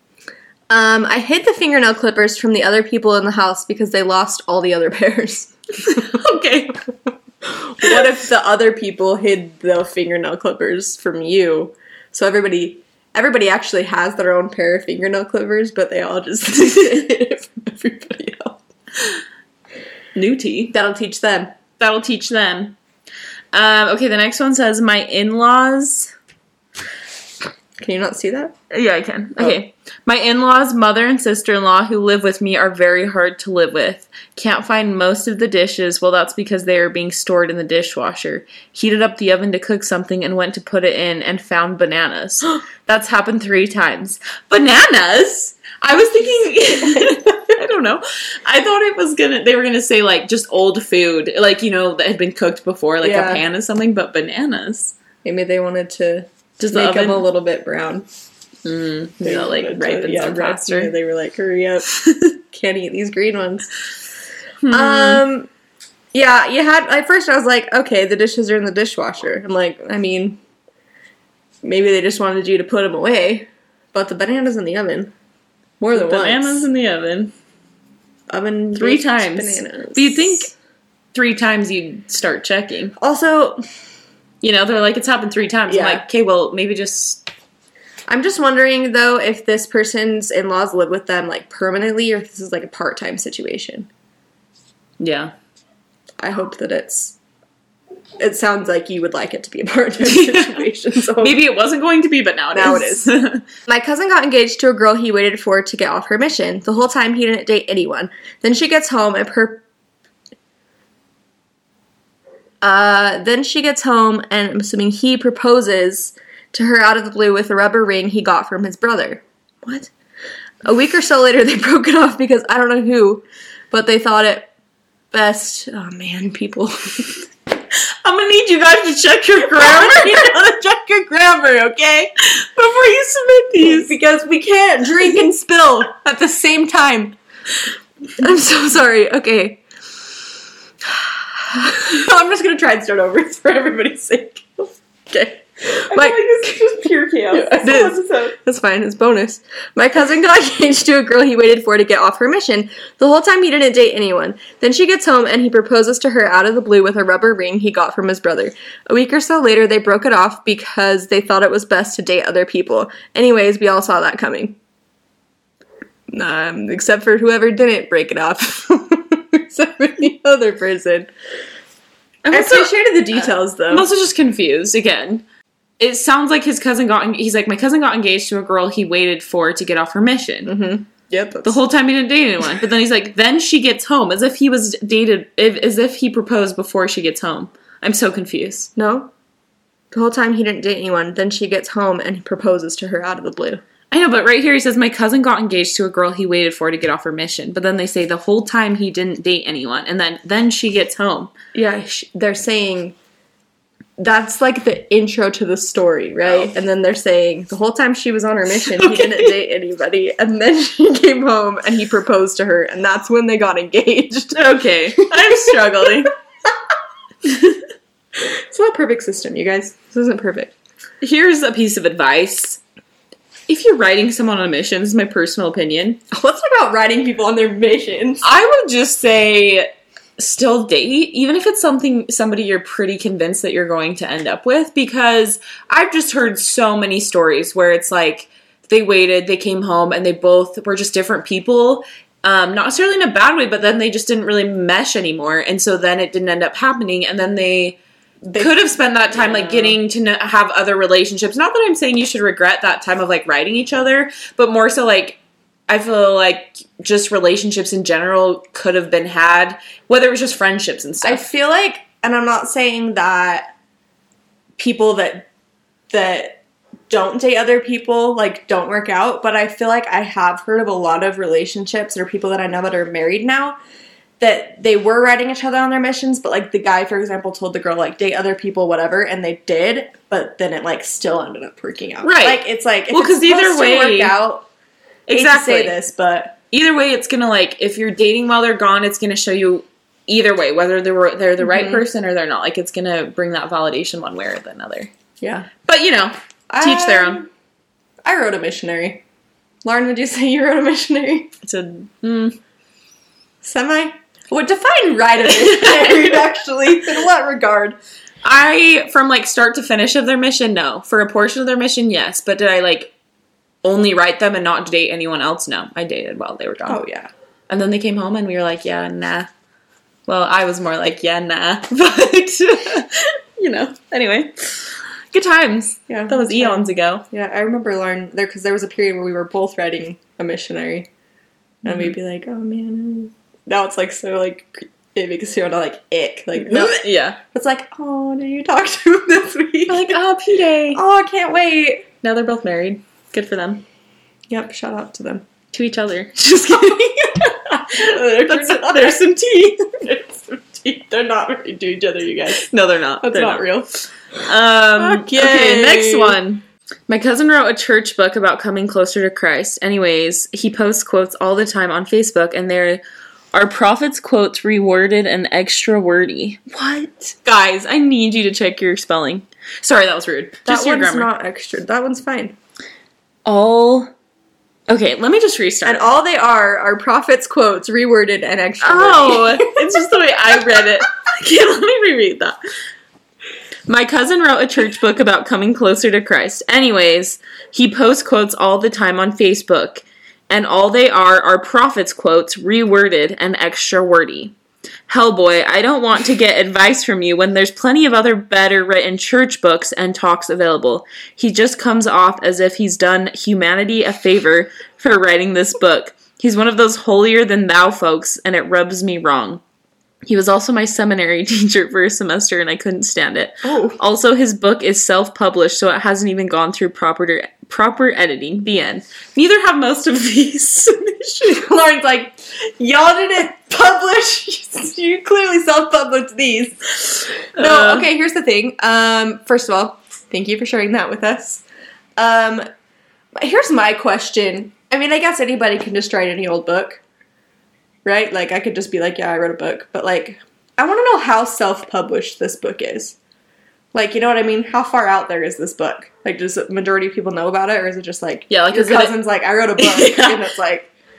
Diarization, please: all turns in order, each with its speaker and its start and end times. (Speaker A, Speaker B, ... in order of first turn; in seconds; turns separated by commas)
Speaker A: 0.7-6.2, Speaker B: 5.8-6.8, Speaker A: 7.4-18.6, Speaker B: 20.1-20.7, Speaker A: 20.7-21.5, Speaker B: 21.8-22.8, Speaker B: 23.5-26.1, Speaker A: 27.8-28.6, Speaker B: 28.7-55.0, Speaker A: 46.9-47.2, Speaker A: 53.0-53.4, Speaker A: 55.2-58.1, Speaker B: 56.6-57.3, Speaker B: 58.6-60.9, Speaker A: 59.2-63.8, Speaker B: 64.6-65.2, Speaker A: 64.7-65.5, Speaker A: 66.1-70.4, Speaker A: 71.6-75.1, Speaker A: 75.8-76.7, Speaker B: 75.9-77.3, Speaker A: 78.3-80.5, Speaker B: 78.7-80.5, Speaker B: 81.1-83.0, Speaker A: 83.0-83.6, Speaker B: 84.4-87.2, Speaker A: 85.7-86.0, Speaker A: 88.1-93.9, Speaker B: 95.0-95.3, Speaker A: 96.2-97.2, Speaker A: 98.2-101.4, Speaker B: 100.0-103.4, Speaker A: 102.5-103.1, Speaker A: 103.7-109.6, Speaker A: 112.6-119.9, Speaker A: 120.6-124.5, Speaker A: 125.1-127.2, Speaker B: 128.0-130.3, Speaker A: 129.4-132.1, Speaker B: 132.2-133.9, Speaker A: 133.6-137.2, Speaker A: 138.2-139.6, Speaker A: 140.8-164.6, Speaker B: 145.9-148.3, Speaker A: 166.1-171.1, Speaker B: 172.2-175.2, Speaker A: 172.3-173.9, Speaker B: 175.8-180.5, Speaker A: 180.5-181.6, Speaker B: 181.4-188.7, Speaker A: 188.8-189.1, Speaker A: 189.9-193.6, Speaker B: 193.9-201.3, Speaker A: 201.5-202.9, Speaker A: 204.0-214.4, Speaker B: 206.3-206.5, Speaker B: 208.7-209.3, Speaker B: 214.3-216.1, Speaker A: 215.0-216.1, Speaker B: 217.3-217.6, Speaker A: 218.2-220.5, Speaker B: 221.0-222.6, Speaker B: 223.5-226.0, Speaker A: 226.1-228.2, Speaker B: 228.2-247.8, Speaker A: 248.3-249.8, Speaker B: 248.4-261.2, Speaker A: 261.0-263.5, Speaker A: 264.6-265.3, Speaker A: 265.9-273.6, Speaker A: 274.2-284.5, Speaker B: 282.0-284.2, Speaker B: 285.1-285.8, Speaker A: 285.1-286.4, Speaker B: 286.5-294.9, Speaker A: 291.4-291.8, Speaker A: 295.2-295.5, Speaker B: 295.7-297.2, Speaker A: 296.5-297.3, Speaker A: 298.1-299.0, Speaker A: 299.6-301.3, Speaker B: 301.4-302.4, Speaker A: 303.4-307.8, Speaker B: 305.5-306.1, Speaker B: 308.2-312.9, Speaker B: 313.6-316.8, Speaker A: 316.7-317.1, Speaker B: 317.5-319.3, Speaker B: 320.1-324.6, Speaker B: 325.1-327.0, Speaker A: 325.9-330.9, Speaker A: 331.6-340.0, Speaker B: 336.4-337.2, Speaker B: 339.7-340.8, Speaker A: 340.7-341.9, Speaker B: 342.0-343.6, Speaker A: 344.3-345.3, Speaker B: 345.5-349.8, Speaker A: 346.5-349.1, Speaker A: 349.7-352.5, Speaker B: 352.3-353.5, Speaker A: 353.0-353.7, Speaker B: 354.2-362.8, Speaker A: 354.8-356.2, Speaker B: 363.3-371.1, Speaker A: 370.5-372.4, Speaker B: 373.3-373.9, Speaker B: 374.7-375.9, Speaker A: 375.6-379.6, Speaker B: 378.6-382.4, Speaker B: 383.7-394.3, Speaker B: 394.9-409.4, Speaker B: 410.1-421.4, Speaker A: 413.4-413.8, Speaker A: 421.2-431.4, Speaker B: 427.4-427.9, Speaker A: 432.0-432.4, Speaker A: 433.1-436.8, Speaker A: 437.9-443.0, Speaker A: 443.7-450.7, Speaker B: 448.3-449.0, Speaker B: 449.6-450.2